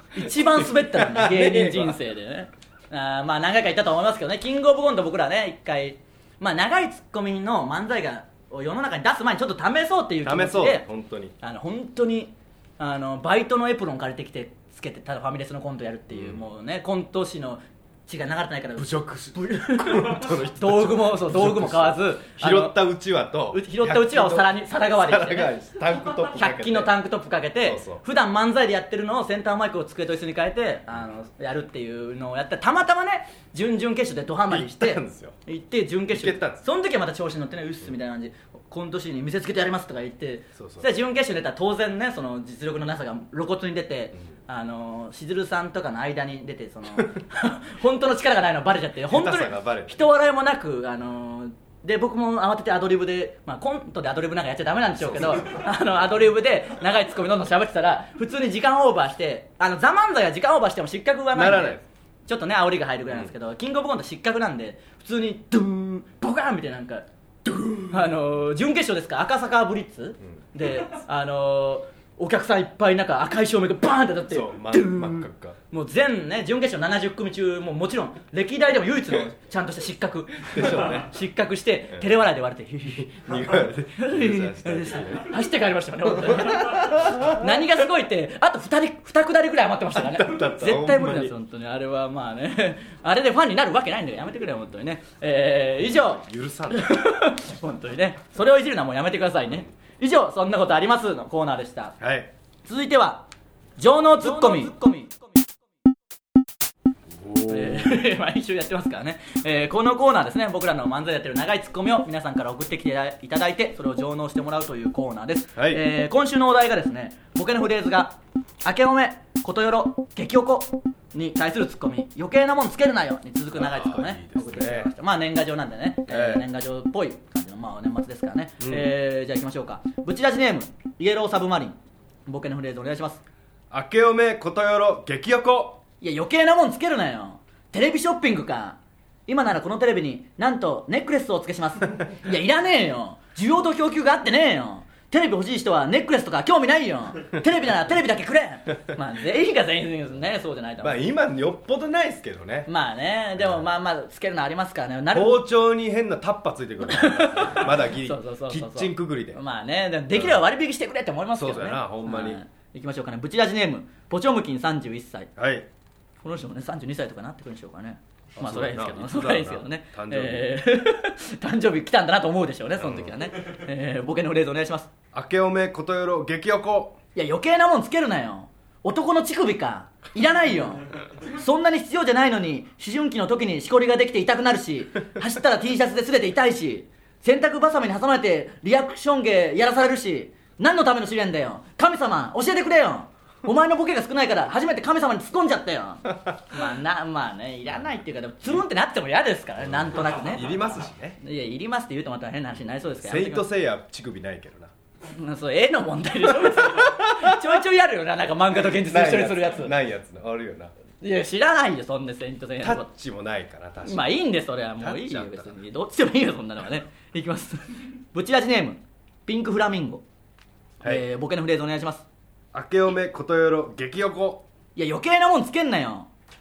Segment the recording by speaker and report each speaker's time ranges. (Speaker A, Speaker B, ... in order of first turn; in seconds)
Speaker A: 0.1-10.8, 11.4-22.8, 23.5-67.0, 67.8-83.3, 84.0-102.0, 102.7-103.3, 103.8-105.1, 107.5-133.2, 136.0-151.1, 152.7-155.4, 156.9-165.3, 166.2-174.9, 177.2-200.5, 201.2-203.4, 205.1-209.7, 211.0-212.9, 213.8-220.0, 220.8-222.1, 224.8-226.1
Speaker B: 0.6-2.0, 10.2-11.3, 16.1-16.4, 18.8-26.9, 27.6-28.0, 34.5-35.4, 36.1-36.6, 40.6-40.9, 49.1-50.0, 55.0-55.7, 61.3-61.8, 67.5-68.1, 74.3-75.6, 80.5-81.1, 83.0-85.3, 86.1-87.4, 89.9-91.3, 95.8-97.1, 102.0-102.3, 107.1-108.1, 115.6-115.8, 123.5-124.9, 126.1-126.5, 128.6-128.9, 133.7-135.8, 150.8-152.7, 153.4-153.7, 155.1-159.4, 160.1-160.4, 161.3-162.4, 165.4-165.7, 168.4-170.6, 172.8-173.1, 175.1-177.0, 199.6-201.2, 203.0-204.7, 206.3-207.5, 208.6-210.7, 212.6-214.2, 214.8-215.6, 222.5-224.4